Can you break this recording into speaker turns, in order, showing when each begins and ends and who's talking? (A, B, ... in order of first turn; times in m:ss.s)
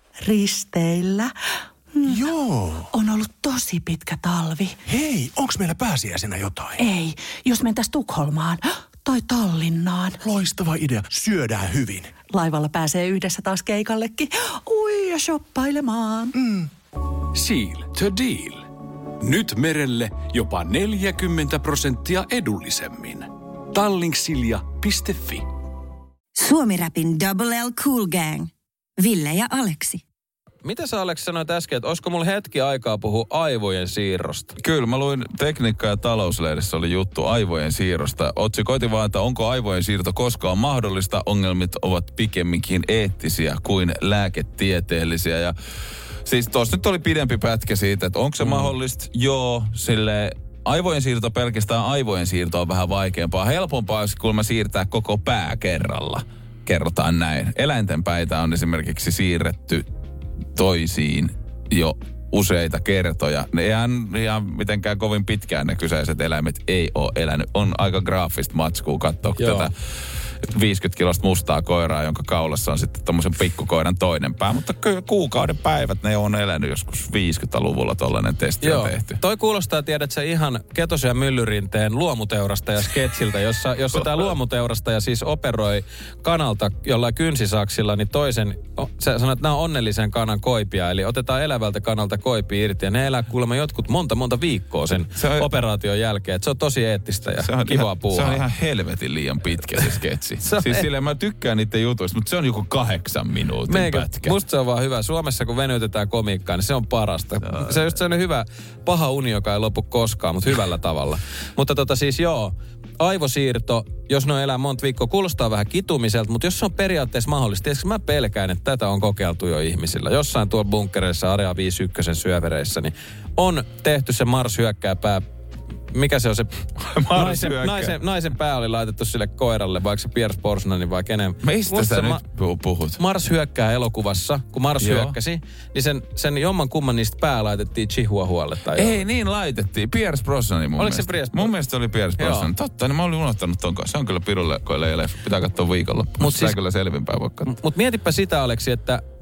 0:00.2-0:01.3 A
0:02.0-0:02.9 B
0:02.9-0:04.8 A
0:04.9-0:06.9 B
0:06.8-0:08.6 A
0:09.1-0:09.8 C
0:09.2-0:10.2 A
0:10.2-0:12.1 B
0:12.3-0:16.3 A
0:16.3-0:16.7 B
0:17.4-0:25.5 D
0:26.4-0:30.0 C
0:30.6-0:34.5 E
0:34.6-0:45.5 F
0:46.3-0:59.9 F
0:48.4-0:48.7 E
1:00.6-1:09.7 F
1:09.4-1:09.7 E
1:10.4-1:19.2 F
1:18.6-1:38.4 E
1:23.9-1:24.3 F
1:35.2-1:35.5 F
1:37.4-1:44.4 F
1:40.4-1:40.9 E
1:43.7-2:05.2 E
1:47.4-1:48.0 F
2:05.9-2:06.5 E
2:06.8-2:08.0 F
2:07.1-2:12.2 E
2:11.4-2:13.0 F
2:13.0-2:19.0 E
2:14.8-2:15.2 F
2:18.7-2:27.6 F
2:20.8-2:21.5 E
2:22.2-2:22.5 E
2:26.2-2:26.6 E
2:27.5-2:29.0 E